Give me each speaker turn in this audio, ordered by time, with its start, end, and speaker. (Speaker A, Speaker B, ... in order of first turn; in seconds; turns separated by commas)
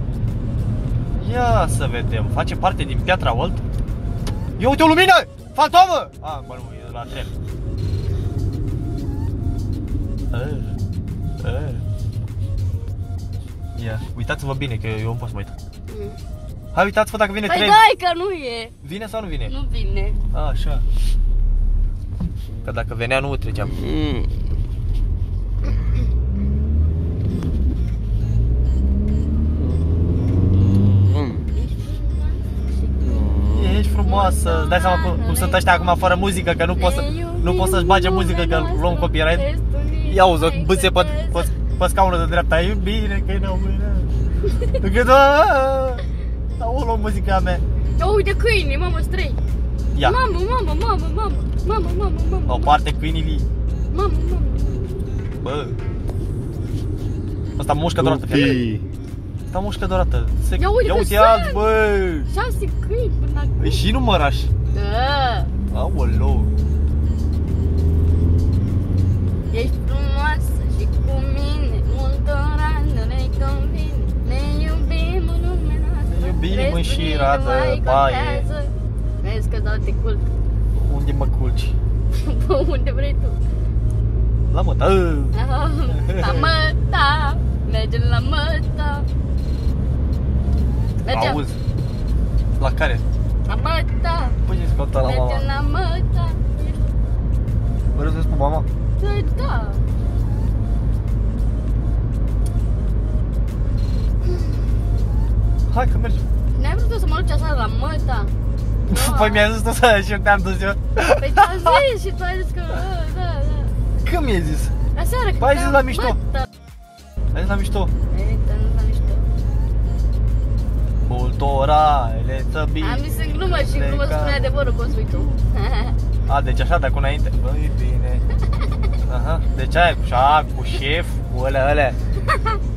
Speaker A: 1.2-3.6, Speaker A: 4.6-7.3, Speaker A: 10.3-10.8, Speaker A: 11.4-11.8, Speaker A: 13.8-15.6, Speaker B: 15.9-16.2, Speaker A: 16.7-17.8, Speaker B: 17.5-18.7, Speaker A: 18.8-19.5, Speaker B: 19.5-20.2, Speaker A: 20.3-20.9, Speaker A: 22.6-23.8, Speaker C: 23.7-24.4, Speaker C: 29.6-31.4, Speaker B: 31.5-33.1, Speaker C: 33.0-33.8, Speaker A: 33.5-39.5, Speaker B: 34.0-36.2, Speaker B: 36.8-41.5, Speaker A: 40.1-44.1, Speaker A: 44.8-46.0, Speaker A: 46.6-47.6, Speaker B: 48.0-49.4, Speaker B: 50.0-52.8, Speaker A: 52.5-53.5, Speaker B: 53.9-55.1, Speaker A: 55.4-55.8, Speaker A: 57.6-58.6, Speaker C: 58.0-58.9, Speaker A: 59.5-62.3, Speaker B: 60.6-61.7, Speaker B: 62.3-63.8, Speaker A: 63.6-64.5, Speaker B: 64.7-65.5, Speaker A: 65.7-66.5, Speaker B: 69.5-80.3, Speaker A: 76.1-78.5, Speaker A: 80.8-81.8, Speaker B: 82.2-83.4, Speaker A: 84.5-85.4, Speaker B: 85.3-89.1, Speaker A: 85.9-86.5, Speaker B: 91.0-91.4, Speaker A: 91.1-91.6, Speaker A: 92.6-93.0, Speaker B: 93.5-94.4, Speaker A: 94.5-95.5, Speaker B: 95.0-96.9, Speaker A: 98.0-98.7, Speaker B: 99.0-99.8, Speaker A: 105.7-106.3, Speaker B: 106.5-108.3, Speaker B: 108.9-109.4, Speaker A: 108.9-111.2, Speaker B: 111.2-113.7, Speaker A: 114.0-114.7, Speaker B: 115.0-116.5, Speaker A: 115.4-116.2, Speaker A: 117.3-117.9, Speaker B: 118.1-119.3, Speaker A: 121.1-125.4, Speaker B: 122.8-126.0, Speaker A: 126.3-128.2, Speaker A: 129.1-132.0